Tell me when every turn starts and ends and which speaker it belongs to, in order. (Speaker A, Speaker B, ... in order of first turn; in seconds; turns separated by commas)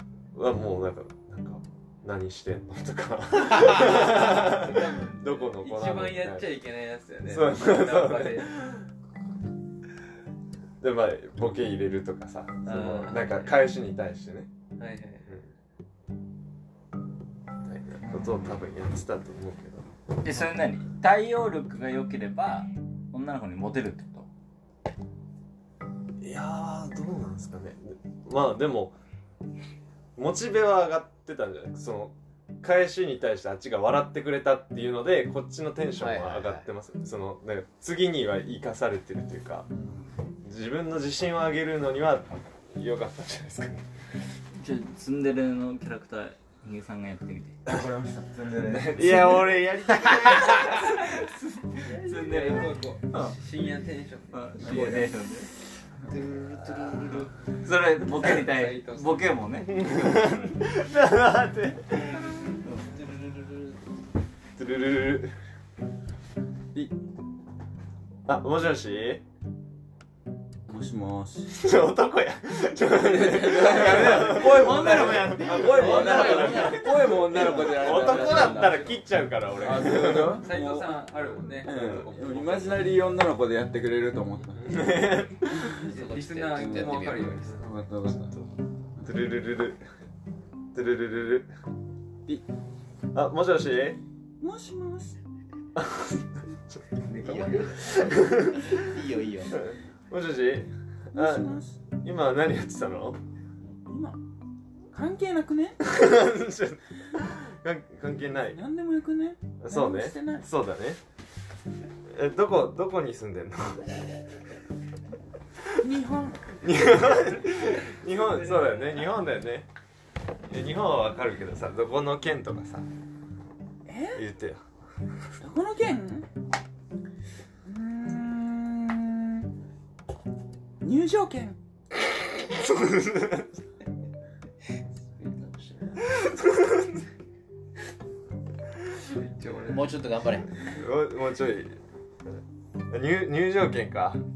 Speaker A: 0.3-6.5, Speaker B: 3.8-8.6, Speaker A: 7.3-8.8, Speaker A: 10.8-14.5, Speaker B: 12.6-13.7, Speaker B: 14.8-15.3, Speaker A: 15.3-15.5, Speaker A: 17.6-19.9, Speaker C: 18.0-18.6, Speaker D: 20.2-24.3, Speaker A: 26.2-28.9, Speaker A: 30.1-39.7, Speaker E: 36.0-36.7, Speaker C: 39.7-40.1, Speaker A: 40.4-43.8, Speaker D: 44.5-47.6, Speaker C: 47.6-49.5, Speaker A: 48.6-50.9, Speaker B: 51.3-55.0, Speaker E: 51.8-52.6, Speaker C: 52.3-52.7, Speaker D: 53.1-53.4, Speaker D: 54.3-55.5, Speaker C: 54.6-55.1, Speaker E: 56.1-57.3, Speaker A: 56.5-57.1, Speaker D: 57.6-59.8, Speaker B: 58.1-59.3, Speaker A: 59.6-62.2, Speaker B: 62.0-62.6, Speaker A: 64.6-65.3, Speaker A: 68.2-69.2, Speaker C: 70.7-71.6, Speaker A: 71.5-80.4, Speaker C: 72.9-78.8, Speaker B: 73.7-79.0, Speaker E: 74.6-77.4, Speaker D: 74.6-74.9, Speaker D: 75.6-76.7, Speaker D: 77.3-78.8, Speaker B: 79.5-83.0, Speaker C: 79.6-81.0, Speaker C: 81.6-84.9, Speaker A: 81.6-82.0, Speaker A: 84.5-85.5, Speaker E: 85.6-87.7, Speaker B: 85.9-87.7, Speaker C: 86.5-86.9, Speaker C: 87.6-88.3, Speaker A: 89.0-89.8, Speaker A: 90.7-91.5, Speaker A: 93.1-94.0, Speaker C: 94.4-95.2, Speaker A: 95.8-96.8, Speaker B: 97.0-98.0, Speaker E: 97.1-99.6, Speaker A: 97.8-98.9, Speaker A: 99.5-103.2, Speaker C: 101.1-101.8, Speaker C: 103.8-104.2, Speaker C: 104.9-105.8, Speaker A: 105.8-108.6, Speaker C: 108.4-110.5, Speaker A: 109.6-111.0, Speaker A: 112.1-114.0, Speaker C: 115.7-116.7, Speaker A: 116.6-119.7, Speaker B: 118.5-119.0, Speaker A: 120.5-122.9, Speaker C: 123.8-124.2, Speaker A: 124.1-124.6, Speaker C: 125.4-126.3, Speaker C: 127.6-129.5, Speaker C: 130.8-131.6, Speaker A: 132.5-133.6, Speaker E: 135.2-136.1, Speaker B: 139.2-140.1, Speaker E: 139.6-140.6, Speaker A: 140.6-141.8, Speaker A: 142.9-144.2